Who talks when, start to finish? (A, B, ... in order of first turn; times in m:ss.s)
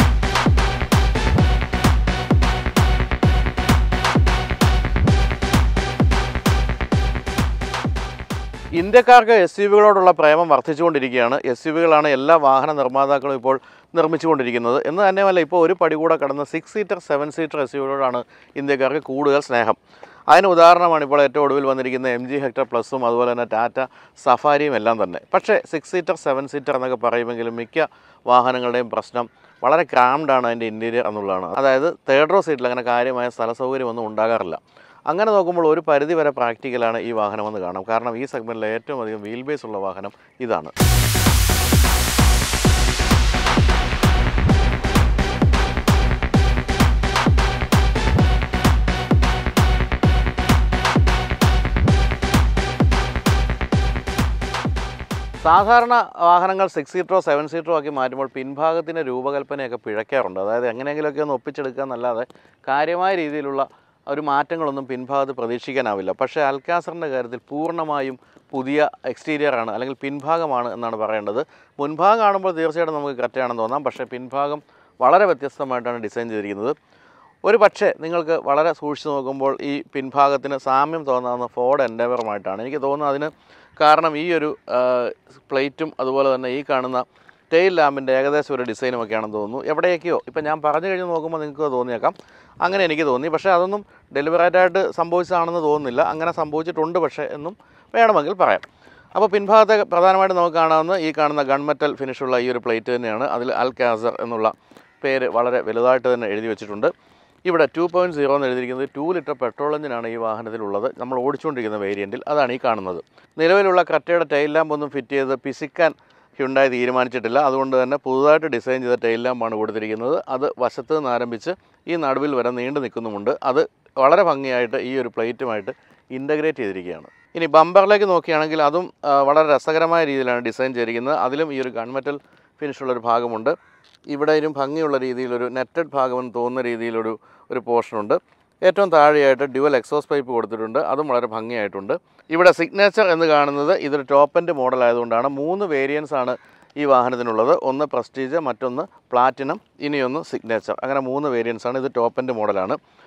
0:08.8-0:19.8 A
0:20.3-0:40.7 A
0:55.4-1:16.8 A
1:17.4-1:38.6 A
1:39.2-1:46.9 A
1:47.5-2:13.6 A
2:14.1-2:32.8 A